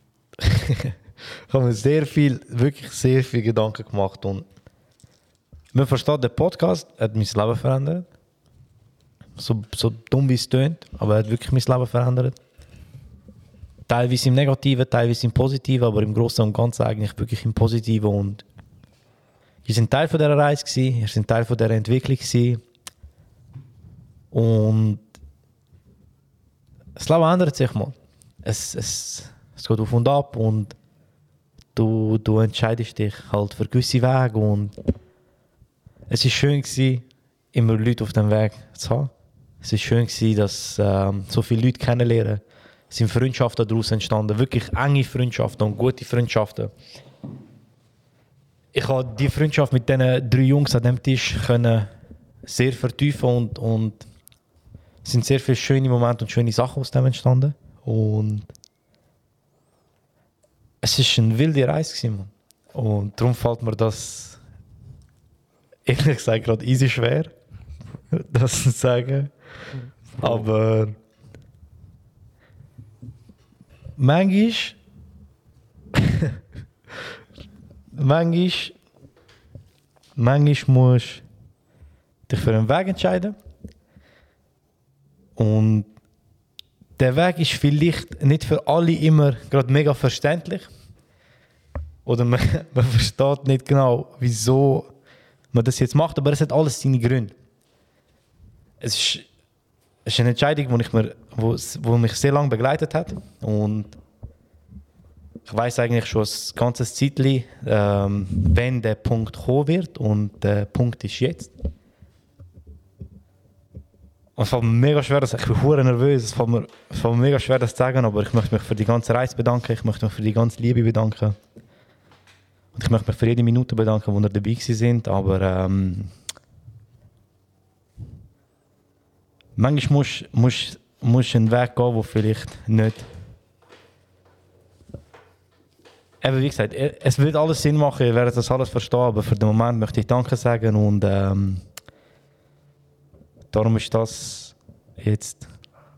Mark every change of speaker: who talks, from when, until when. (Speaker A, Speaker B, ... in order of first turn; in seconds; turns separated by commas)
Speaker A: 0.4-0.9, Speaker A: 1.5-4.5, Speaker A: 5.7-8.1, Speaker A: 9.4-12.3, Speaker A: 13.9-18.4, Speaker A: 19.6-22.6, Speaker A: 24.3-25.0, Speaker A: 26.9-30.7, Speaker A: 31.7-34.7, Speaker A: 36.1-39.1, Speaker A: 39.6-46.7, Speaker A: 48.7-51.9, Speaker A: 52.4-54.0, Speaker A: 55.0-58.5, Speaker A: 60.8-64.4, Speaker A: 65.8-67.3, Speaker A: 68.1-69.3, Speaker A: 70.2-70.9, Speaker A: 74.0-74.8, Speaker A: 77.9-78.7, Speaker A: 80.2-81.2, Speaker A: 82.3-83.3, Speaker A: 85.4-85.9, Speaker A: 87.0-90.7, Speaker A: 92.0-94.9, Speaker A: 95.5-97.3, Speaker A: 98.8-99.2, Speaker A: 100.0-104.0, Speaker A: 105.5-111.5, Speaker A: 114.4-121.3, Speaker A: 122.7-126.1, Speaker A: 129.6-133.1, Speaker A: 136.2-141.6, Speaker A: 143.5-145.5